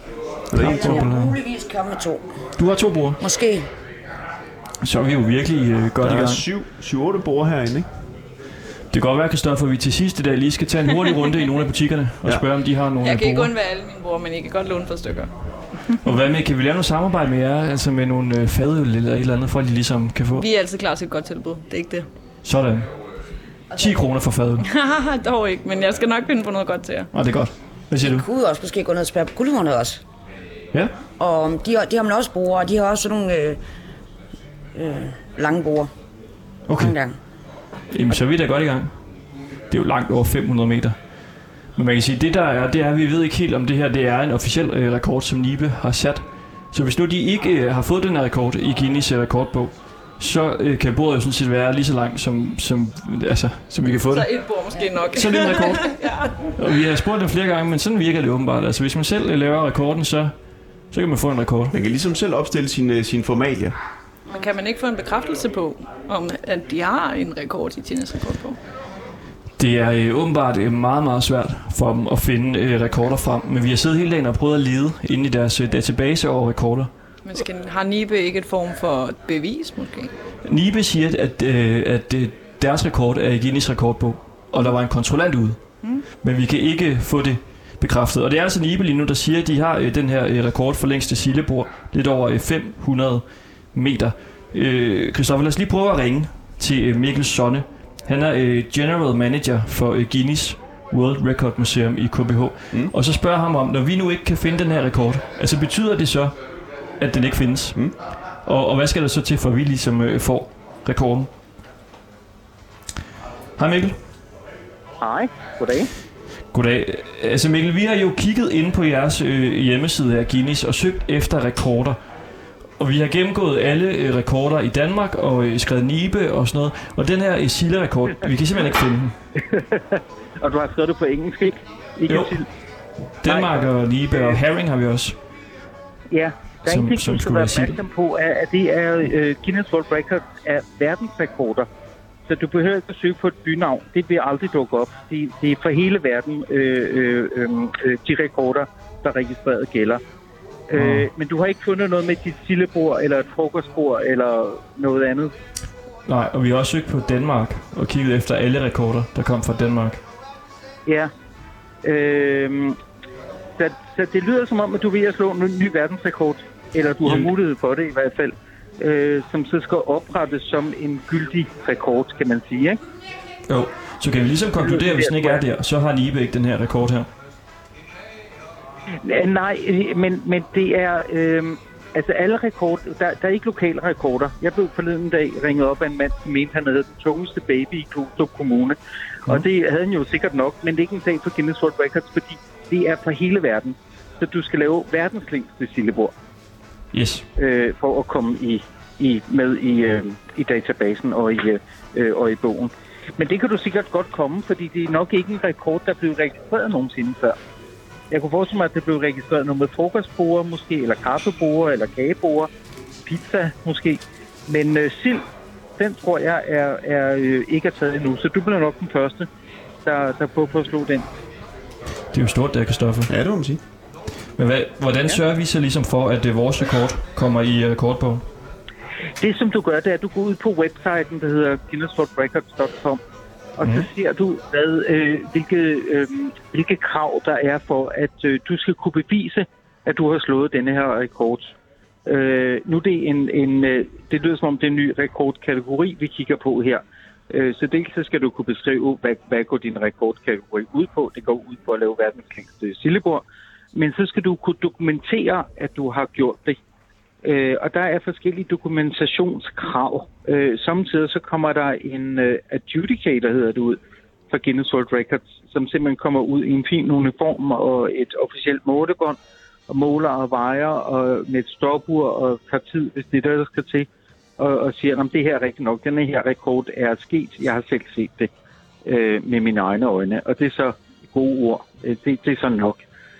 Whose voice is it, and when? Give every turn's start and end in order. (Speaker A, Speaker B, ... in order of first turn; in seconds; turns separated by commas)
Speaker A: 0.5-1.1, Speaker B: 0.6-2.2, Speaker C: 0.6-1.4, Speaker C: 2.6-3.2, Speaker B: 3.2-3.7, Speaker C: 4.8-6.4, Speaker A: 6.0-7.9, Speaker C: 8.9-13.5, Speaker D: 13.0-15.3, Speaker C: 16.0-20.4, Speaker D: 20.4-22.1, Speaker C: 22.4-22.9, Speaker B: 23.7-24.0, Speaker C: 23.7-24.6, Speaker D: 24.6-27.1, Speaker C: 27.1-28.2, Speaker B: 28.0-30.0, Speaker B: 31.2-33.6, Speaker B: 34.8-35.9, Speaker C: 36.7-36.9, Speaker B: 36.8-37.1, Speaker C: 37.9-38.9, Speaker C: 39.7-41.0, Speaker C: 41.8-54.3, Speaker D: 54.1-56.3, Speaker C: 55.0-60.3, Speaker C: 60.9-61.7, Speaker A: 61.7-63.8, Speaker D: 64.3-68.6, Speaker C: 69.6-76.9, Speaker D: 77.2-80.1, Speaker C: 80.4-85.6, Speaker C: 86.2-106.3, Speaker C: 107.0-107.8, Speaker C: 108.5-111.3, Speaker C: 113.6-114.0, Speaker E: 115.0-115.9, Speaker C: 116.5-122.0, Speaker C: 122.8-129.2, Speaker E: 129.4-132.5, Speaker C: 132.1-132.4, Speaker C: 133.2-135.2, Speaker E: 133.2-134.4, Speaker E: 136.1-141.7, Speaker C: 136.6-137.8, Speaker E: 142.3-150.0, Speaker E: 150.7-155.3, Speaker C: 150.8-151.1, Speaker C: 156.1-160.0, Speaker E: 160.8-161.1, Speaker E: 161.8-162.8, Speaker E: 163.6-172.8, Speaker C: 167.0-167.3, Speaker C: 173.5-177.1, Speaker E: 174.6-175.4, Speaker E: 179.0-196.1, Speaker C: 196.9-197.2, Speaker E: 197.4-207.4, Speaker E: 208.1-212.5, Speaker E: 213.1-215.2, Speaker E: 215.8-219.3, Speaker E: 219.8-221.1, Speaker C: 222.1-223.1, Speaker A: 223.1-223.6, Speaker C: 224.4-228.2, Speaker E: 229.2-233.0, Speaker E: 233.6-241.5, Speaker C: 233.6-233.9, Speaker E: 242.1-256.6, Speaker E: 257.2-263.8, Speaker E: 264.3-269.2, Speaker E: 269.7-273.9, Speaker E: 274.4-278.3, Speaker E: 278.8-282.8